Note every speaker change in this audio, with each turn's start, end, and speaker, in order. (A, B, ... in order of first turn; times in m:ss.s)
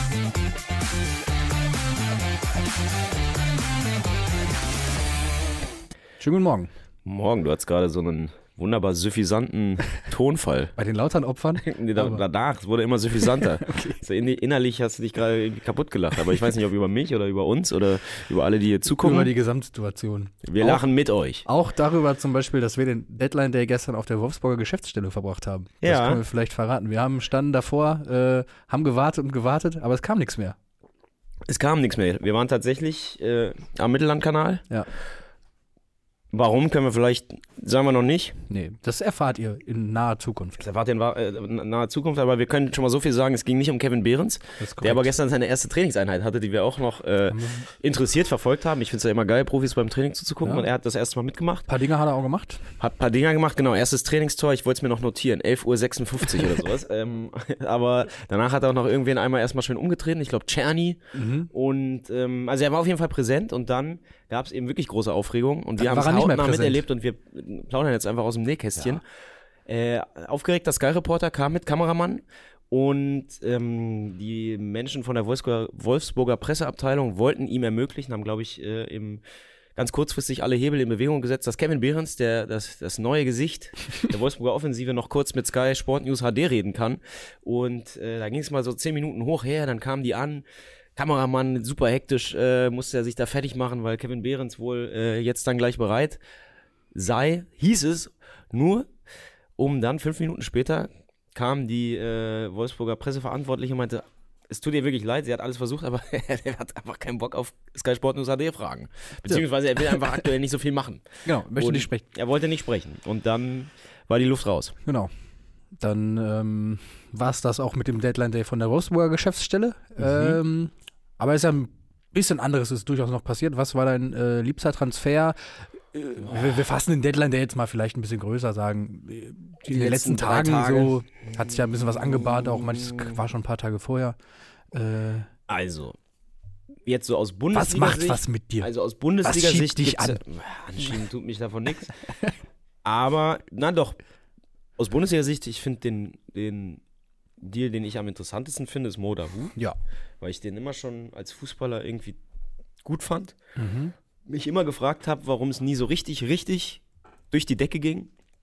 0:06.2-0:06.7 A
0:07.0-0:10.7 B
0:10.8-0:12.2 A
0:11.6-0:19.3 B
0:13.6-0:14.0 A
0:19.0-0:20.8 A
0:20.4-0:21.4 B
0:21.4-0:30.6 A
0:25.8-0:26.2 B
0:31.5-0:34.6 B
0:36.3-0:38.4 B
0:38.5-0:40.6 A
0:40.6-0:51.7 B
0:44.6-0:45.1 A
0:47.3-0:47.7 A
0:51.7-0:52.6 A
0:52.8-1:09.0 B
1:01.2-1:01.5 A
1:05.8-1:06.8 A
1:09.7-1:19.2 B
1:19.8-1:30.4 B
1:31.0-1:36.2 B
1:36.9-1:38.9 B
1:39.6-1:54.8 B
1:51.2-1:52.0 A
1:55.8-2:14.2 A
2:00.0-2:00.4 B
2:09.7-2:11.0 B
2:12.1-2:13.1 B
2:14.7-2:15.3 A
2:15.5-2:16.0 B
2:16.9-2:21.9 B
2:17.5-2:18.7 A
2:19.2-2:20.2 A
2:22.8-2:24.0 B
2:24.8-2:26.8 B
2:27.4-2:29.6 B
2:30.2-2:32.2 B
2:32.8-2:33.4 B
2:33.6-2:33.9 A
2:34.3-2:38.1 B